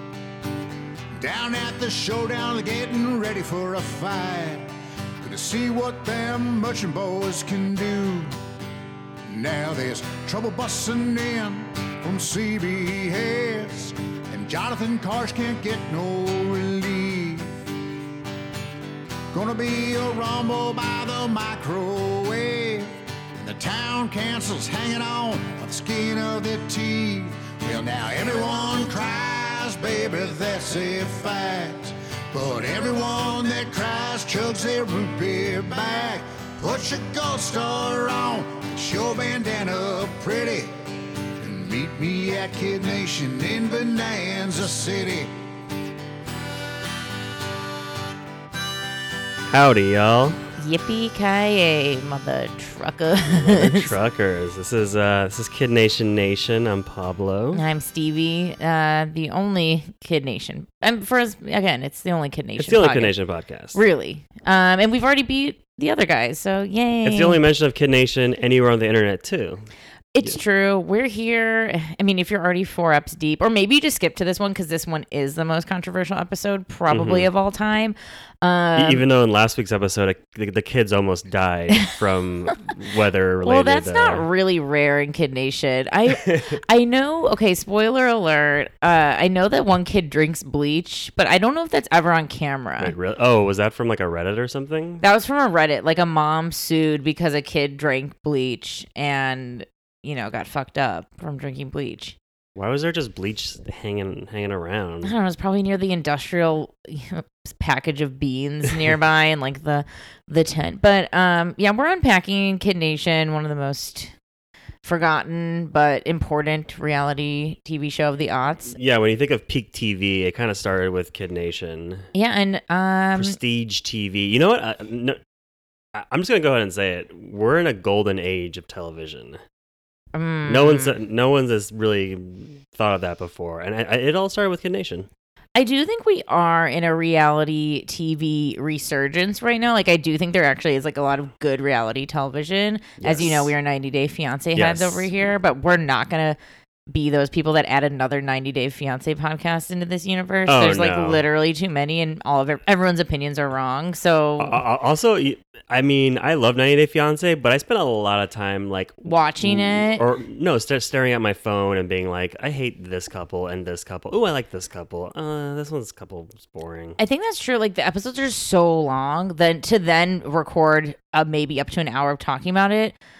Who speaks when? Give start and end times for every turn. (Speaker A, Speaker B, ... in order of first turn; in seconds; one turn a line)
Speaker A: 1.2-8.4
Speaker A: 9.3-17.6
Speaker A: 19.3-40.7
Speaker A: 41.4-45.3
Speaker B: 49.5-50.4
Speaker C: 50.6-53.9
Speaker B: 53.3-57.6
Speaker C: 57.5-63.1
Speaker B: 62.6-63.8
Speaker C: 63.7-67.4
Speaker B: 67.0-69.6
Speaker C: 70.1-79.0
Speaker B: 76.9-77.3
Speaker B: 78.8-84.3
Speaker C: 83.4-92.9
Speaker B: 86.2-86.6
Speaker B: 92.8-95.0
Speaker C: 95.0-102.2
Speaker B: 102.6-105.1
Speaker C: 105.0-114.1
Speaker C: 114.8-118.8
Speaker B: 118.8-122.1
Speaker C: 122.2-123.4
Speaker B: 123.2-125.2
Speaker B: 125.9-129.4
Speaker C: 130.1-130.9
Speaker B: 130.5-135.1
Speaker C: 135.6-146.4
Speaker B: 143.0-143.5
Speaker B: 144.6-145.2
Speaker C: 146.9-154.6
Speaker B: 150.5-151.2
Speaker B: 154.4-167.0
Speaker C: 159.1-160.0
Speaker C: 167.0-173.0